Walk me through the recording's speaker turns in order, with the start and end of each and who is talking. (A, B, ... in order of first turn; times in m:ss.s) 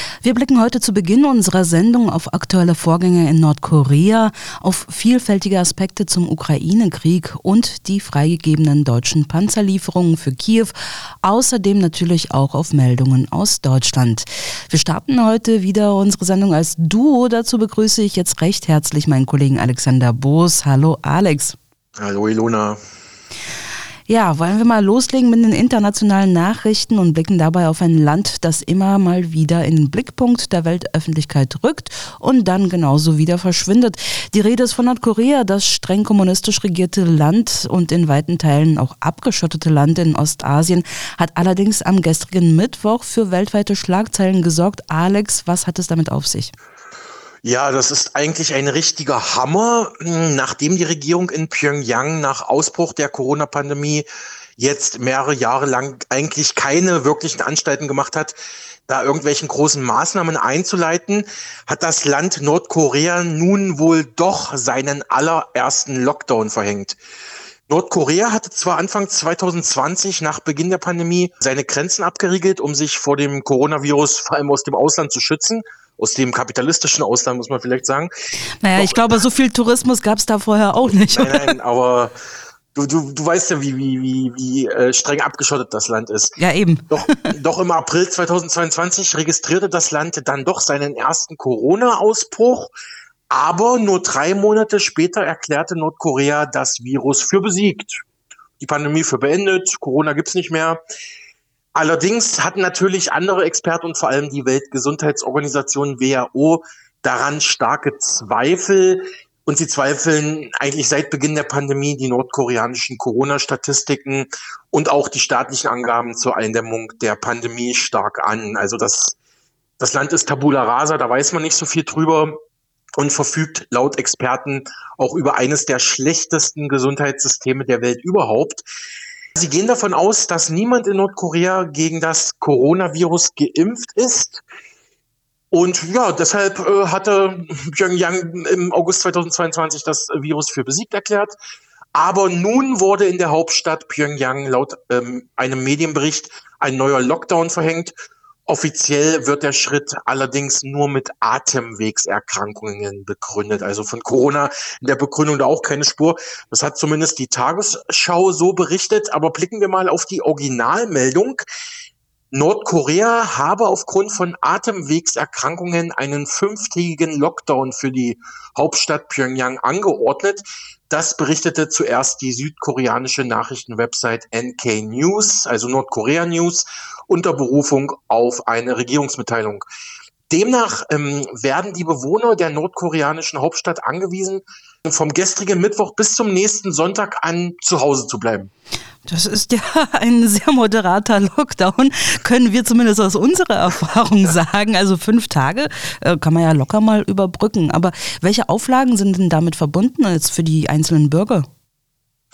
0:00.2-0:21.6 A
0:22.0-0:22.8 B
0:24.1-0:46.5 A
0:47.4-0:54.0 B
0:54.6-0:58.4 B
0:58.9-1:07.0 B
1:07.7-1:18.1 B
1:18.6-1:21.5 A
1:18.8-1:19.0 B
1:21.0-1:22.1 B
1:22.8-1:26.4 B
1:26.4-1:27.3 A
1:26.9-1:32.7 B
1:33.3-1:38.0 B
1:38.6-1:40.8 B
1:41.8-1:59.2 B
1:59.8-2:02.4 B
2:03.0-2:08.6 B
2:09.4-2:14.4 B
2:15.5-2:21.4 B
2:22.0-2:27.9 B
2:28.5-2:41.4 B
2:42.3-2:59.6 B
3:00.3-3:08.5 B
3:09.1-3:21.5 A